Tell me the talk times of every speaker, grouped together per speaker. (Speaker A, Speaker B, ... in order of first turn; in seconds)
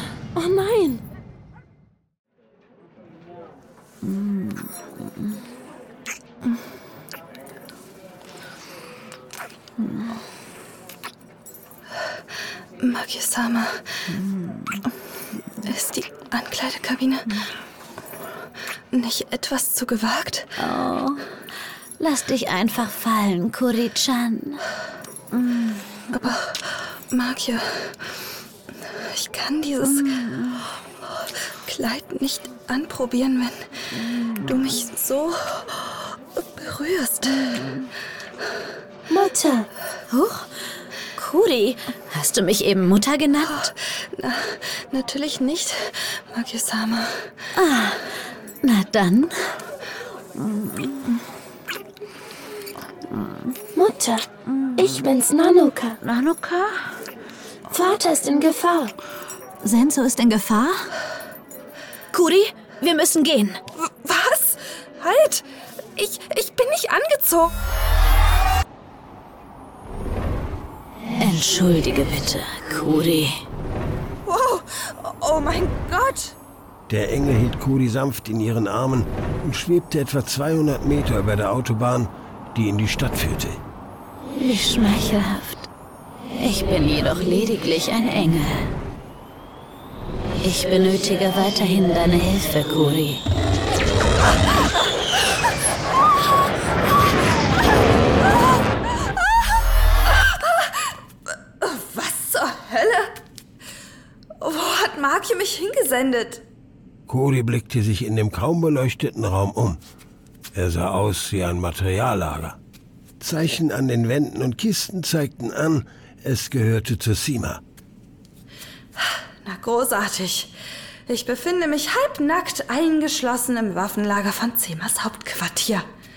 Speaker A: 0.3-1.0, 39.1-39.7, 53.8-56.0, 57.7-59.0
Speaker B: 12.8-14.0, 15.7-17.5, 18.9-20.5, 26.1-28.1, 29.0-30.1, 31.1-33.7, 34.5-37.7, 43.4-47.3, 63.8-65.5, 66.0-67.5, 74.3-76.4, 101.6-103.1, 104.4-106.4, 119.0-120.5, 121.1-125.8
Speaker C: 14.1-14.8, 20.6-21.3, 22.0-24.6, 25.3-25.8, 30.0-30.4, 40.1-40.4, 41.2-43.5, 47.6-48.0, 48.6-49.3, 50.4-51.1, 54.7-55.0, 55.6-56.8, 59.6-60.9, 62.1-63.6, 71.2-73.3, 84.4-85.7, 86.4-88.7, 90.4-93.2
Speaker D: 76.9-83.6, 107.1-109.8, 110.5-112.6, 113.2-117.6